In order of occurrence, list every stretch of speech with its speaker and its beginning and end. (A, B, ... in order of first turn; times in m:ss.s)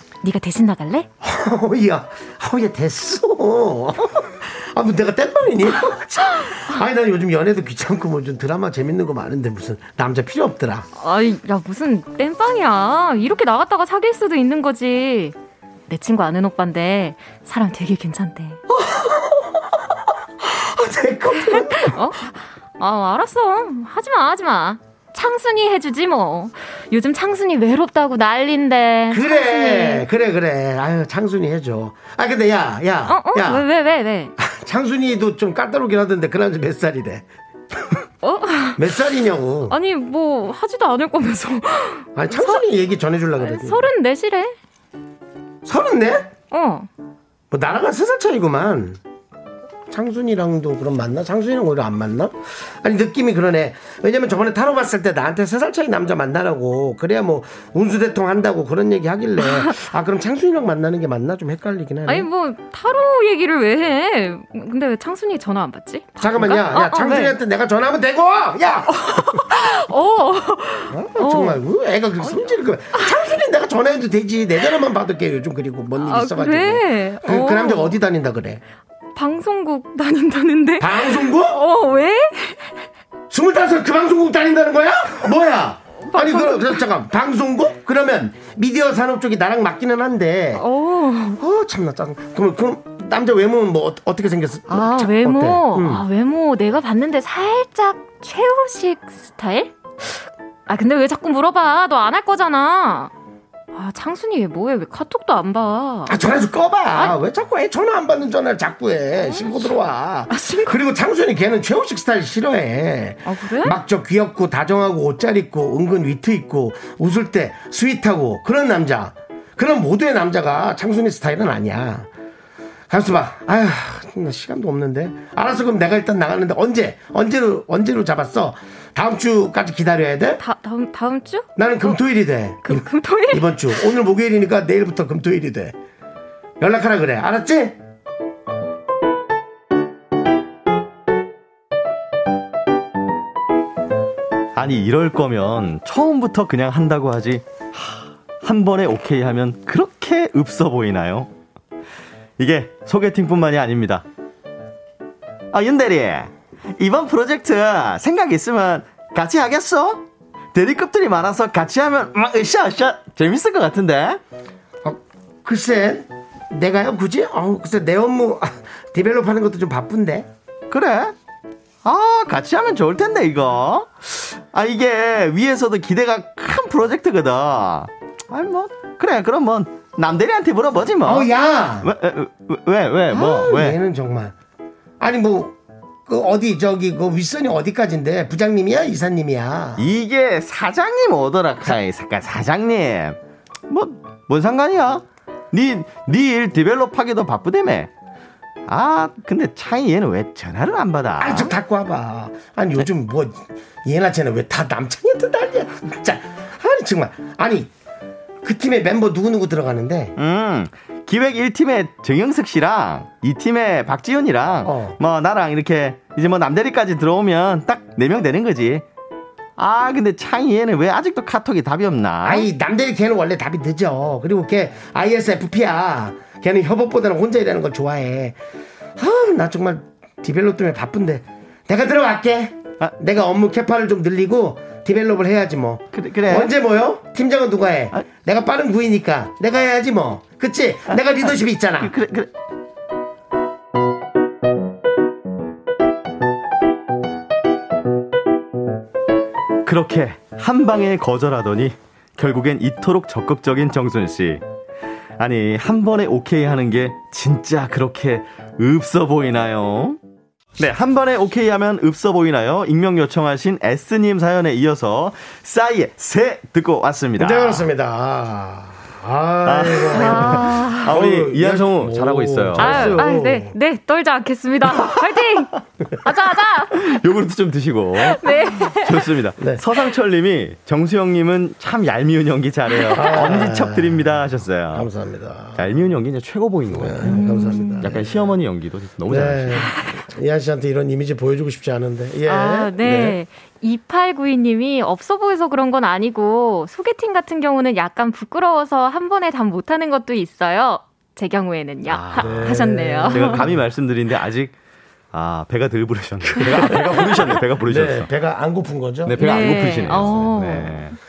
0:00.2-0:01.1 A
0:01.2-0:10.9 B
0:11.0-0:15.4 A
0:15.9-0:18.6 A
0:18.7-0:22.0 B
0:21.5-0:30.1 A
0:29.1-0:33.6 B
0:33.1-0:34.3 A
0:34.4-0:37.2 B
0:38.2-0:38.9 A
0:38.8-0:39.8 B
0:39.7-0:42.6 A
0:42.2-0:43.9 B
0:43.4-0:44.6 A
0:45.6-0:46.3 B
0:46.5-0:46.9 A
0:47.5-0:49.0 B
0:49.9-1:02.3 B
1:02.1-1:07.4 A
1:06.2-1:09.5 B
1:09.0-1:11.6 A
1:10.9-1:18.6 B
1:16.0-1:18.0 A
1:19.2-1:22.7 A
1:20.8-1:21.6 B
1:23.3-1:30.6 B
1:26.1-1:26.8 A
1:30.6-1:31.4 A
1:31.4-1:36.1 B
1:34.7-1:43.1 A
1:43.7-1:46.2 A
1:46.1-2:02.1 B
1:49.2-1:49.5 A
1:50.3-1:50.8 A
1:53.2-1:53.8 A
2:02.9-2:10.4 B
2:10.4-2:11.5 A
2:11.6-2:15.8 B
2:12.6-2:13.9 A
2:16.6-2:17.8 B
2:24.6-2:31.3 C
2:32.4-2:34.1 C
2:35.5-2:44.2 C
2:44.8-2:50.3 B
2:50.7-2:51.2 C
2:51.8-3:01.3 C
3:01.0-3:01.9 B
3:01.8-3:03.8 C
3:03.1-3:04.4 B
3:05.0-3:09.8 B
3:09.8-3:13.2 C
3:13.7-3:17.9 C
3:18.7-3:21.5 C
3:21.2-3:27.7 B
3:28.4-3:30.1 B
3:30.2-3:38.8 C
3:34.6-3:35.0 B
3:39.6-3:42.5 C
3:42.2-3:48.4 B
3:49.0-4:01.9 B
3:55.9-3:56.5 C
4:01.8-4:02.3 C
4:09.6-4:14.4 C
4:15.2-4:20.0 C
4:20.6-4:27.7 C
4:27.2-4:33.6 B
4:29.4-4:33.1 C
4:29.9-4:30.9 A
4:32.6-4:36.8 A
4:36.7-4:44.9 C
4:38.0-4:39.1 A
4:43.0-4:44.1 B
4:44.7-4:45.7 B
4:45.6-4:47.2 C
4:46.7-4:48.0 B
4:47.0-4:47.9 A
4:47.8-4:49.7 C
4:49.1-4:53.2 B
4:49.7-4:50.0 A
4:52.3-5:03.5 A
5:01.9-5:02.6 C
5:02.2-5:03.5 B
5:03.1-5:04.5 C
5:05.1-5:08.1 C
5:06.7-5:07.1 B
5:07.6-5:09.3 B
5:09.1-5:11.0 C
5:09.2-5:10.9 A